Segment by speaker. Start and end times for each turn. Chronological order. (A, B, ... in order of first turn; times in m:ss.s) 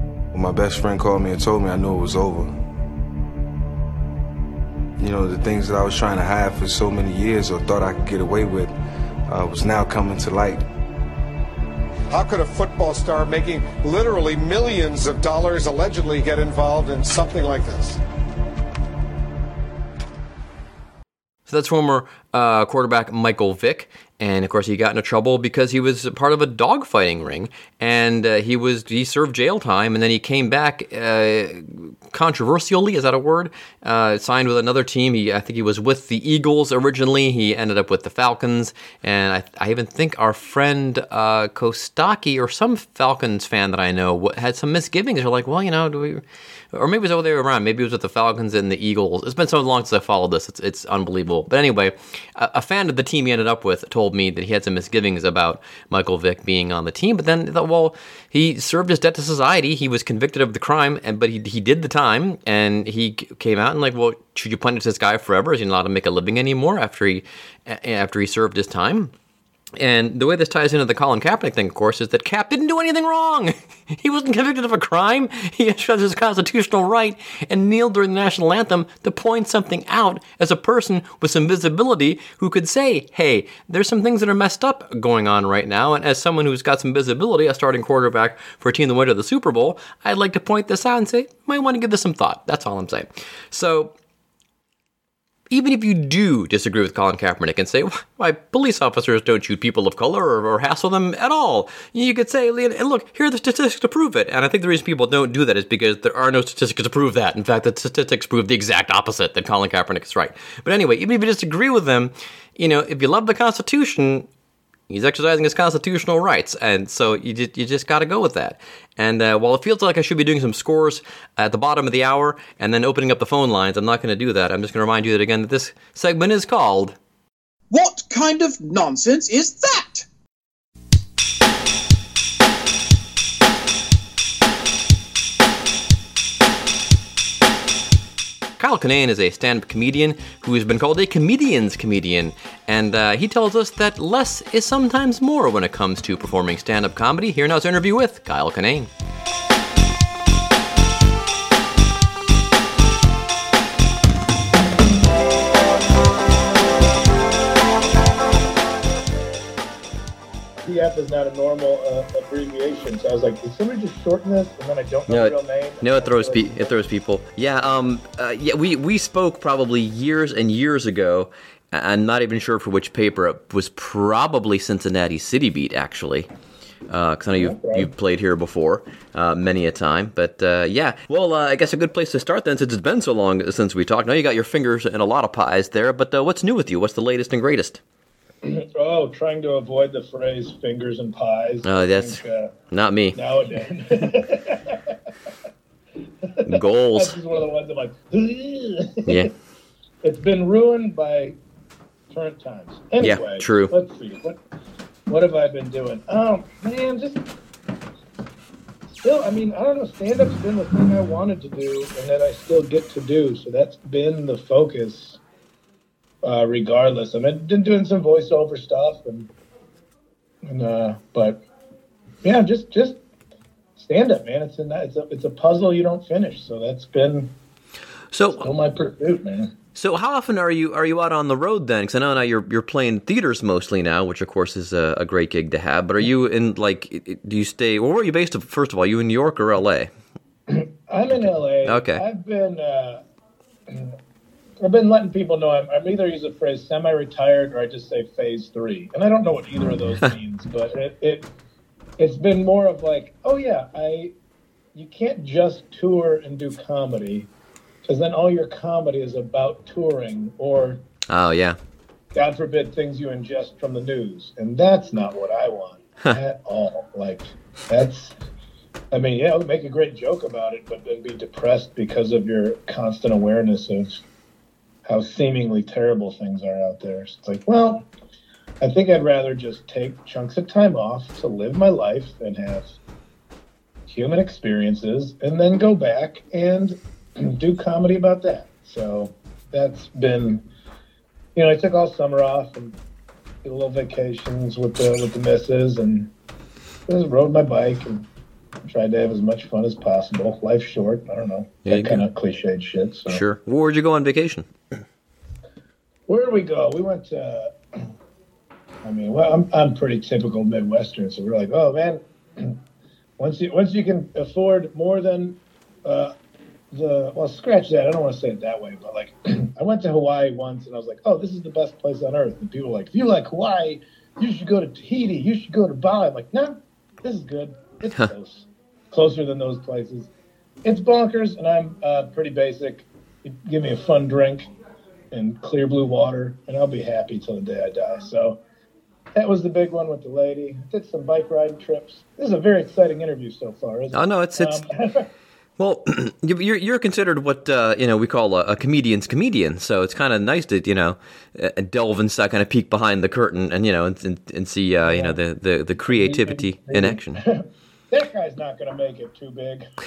0:00.3-0:02.5 A
0:05.0-0:08.7 A
0:09.3-0:10.6 A
0:12.1-0:18.0 B
0:21.5-1:09.1 C
1:09.8-1:33.9 C
1:35.5-1:54.3 C
1:54.9-2:07.0 C
2:07.7-2:10.0 D
2:18.6-2:28.9 C
2:40.6-2:46.8 E
2:45.1-2:56.3 C
2:56.9-3:07.8 C
2:57.4-2:57.9 E
3:08.4-3:12.5 E
3:11.6-3:13.2 C
3:13.1-3:15.0 E
3:16.2-3:19.3 E
3:16.5-3:17.2 C
3:20.0-3:21.4 E
3:22.1-3:24.4 E
3:23.0-3:23.7 C
3:25.1-3:27.2 E
3:29.0-3:35.2 E
3:36.2-3:39.3 E
3:40.4-3:41.4 E
3:42.2-3:43.0 E
3:43.8-3:47.3 E
3:48.1-3:48.5 C
3:48.3-3:49.5 E
3:49.7-3:59.9 C
4:00.5-4:03.0 E
4:01.1-4:02.0 C
4:03.7-4:03.9 E
4:04.6-4:11.3 E
4:12.0-4:14.1 E
4:14.7-4:17.3 E
4:17.8-4:20.8 E
4:21.1-4:21.6 C
4:22.1-4:28.2 E
4:28.9-4:34.0 E
4:34.8-4:37.8 E
4:38.6-4:42.7 E
4:43.9-4:50.4 E
4:51.3-4:52.7 E
4:53.4-4:56.1 E
4:56.9-4:58.0 E
4:58.7-5:03.2 E
5:01.6-5:02.0 C
5:03.1-5:04.5 C
5:06.1-5:07.5 E
5:08.8-5:12.6 E
5:13.2-5:16.1 E
5:16.7-5:30.1 E
5:30.6-5:34.5 E
5:35.1-5:38.4 E
5:39.2-5:45.1 E
5:43.9-5:44.6 C
5:45.6-5:57.2 C
5:54.8-5:55.2 E
5:55.8-5:59.6 E